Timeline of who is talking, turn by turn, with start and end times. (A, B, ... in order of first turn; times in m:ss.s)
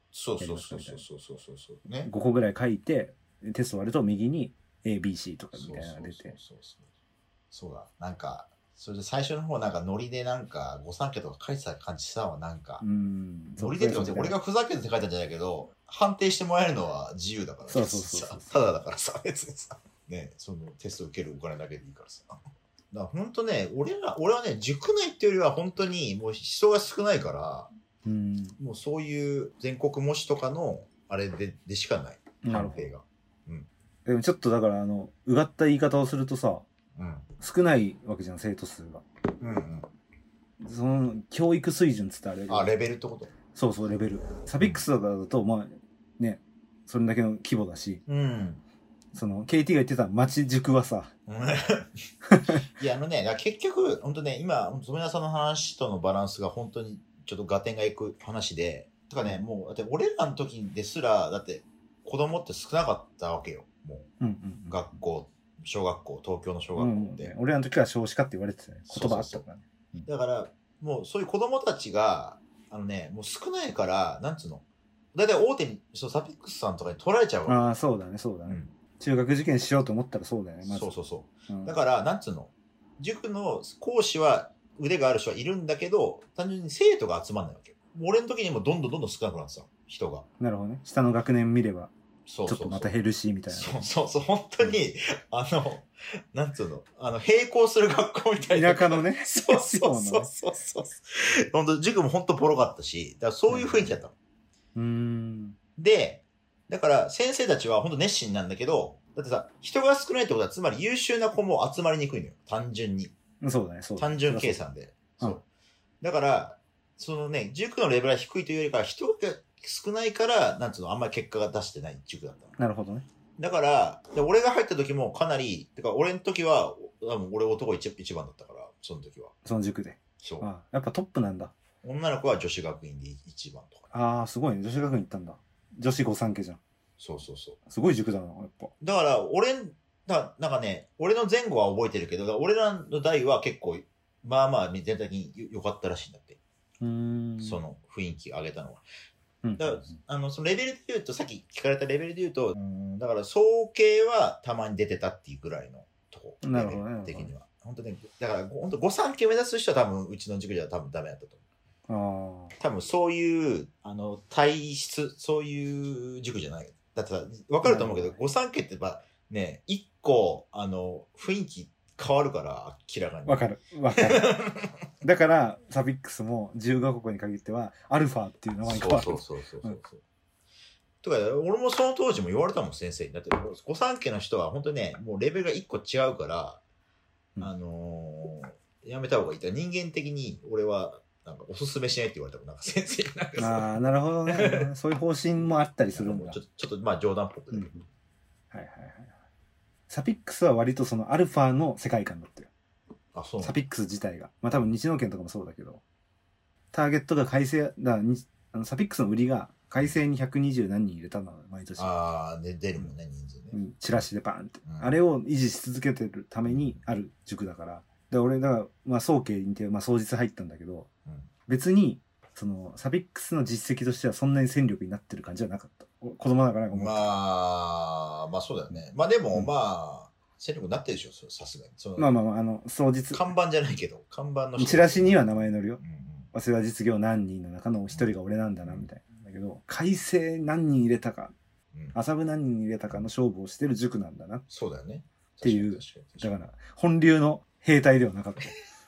0:00.1-0:02.1 A
0:00.4-0:01.0 B
0:02.0-0:06.4 B
0:05.5-0:06.9 A
0:07.5-0:12.8 A
0:12.8-0:14.4 B
0:13.6-0:22.4 A
0:17.7-0:18.5 B
0:22.9-0:27.7 A
0:28.0-0:28.6 B
0:28.6-0:33.7 A
0:32.4-0:32.9 B
0:34.0-0:36.6 B
0:37.0-0:37.3 A
0:37.4-0:39.0 B
0:39.4-0:39.9 A
0:40.6-0:42.7 B
0:42.5-0:43.3 A
0:43.5-0:48.0 B
0:48.1-0:48.6 A
0:49.1-0:51.1 B
0:51.3-0:52.0 A
0:52.2-0:52.6 B
0:52.7-1:04.1 A
1:04.2-1:04.9 B
1:04.7-1:07.3 A
1:06.8-1:10.1 B
1:08.9-1:09.4 A
1:10.0-1:17.6 A
1:17.5-1:20.9 B
1:18.5-1:18.7 A
1:20.6-1:30.2 A
1:21.5-1:21.7 B
1:30.4-1:31.9 B
1:32.2-1:32.9 A
1:32.5-1:33.9 B
1:33.5-1:44.1 A
1:38.5-1:40.3 B
1:43.5-1:43.9 B
1:44.7-1:45.6 B
1:45.8-1:53.1 A
1:53.4-1:54.6 B
1:54.0-1:55.4 A
1:56.0-2:02.6 A
2:02.6-2:03.0 B
2:03.4-2:09.3 A
2:09.4-2:11.5 B
2:10.2-2:10.5 A
2:11.8-2:13.9 A
2:13.9-2:16.6 B
2:17.0-2:17.6 A
2:17.7-2:18.7 B
2:18.8-2:26.4 A
2:26.8-2:27.6 B
2:27.4-2:28.8 A
2:29.4-2:30.0 B
2:29.6-2:41.4 A
2:36.4-2:37.3 B
2:41.9-2:42.5 B
2:42.6-2:54.7 A
2:47.6-2:48.2 B
2:53.2-2:54.4 B
2:55.0-2:59.8 B
2:58.6-3:00.0 A
3:01.0-3:06.6 A
3:07.4-3:13.7 A
3:13.4-3:16.4 B
3:14.3-3:14.7 A
3:15.9-3:17.8 A
3:17.5-3:17.8 B
3:18.5-3:19.1 B
3:19.9-3:22.5 B
3:23.1-3:23.6 A
3:23.4-3:25.8 B
3:26.7-3:31.9 B
3:31.8-3:33.6 A
3:33.5-3:40.9 B
3:34.6-3:35.0 A
3:36.5-3:36.8 A
3:41.5-3:47.1 B
3:46.7-3:52.1 A
3:52.0-3:53.3 B
3:53.1-3:56.3 A
3:54.6-3:55.8 B
3:56.3-4:01.3 B
4:01.9-4:04.4 B
4:04.5-4:06.3 A
4:05.4-4:08.5 B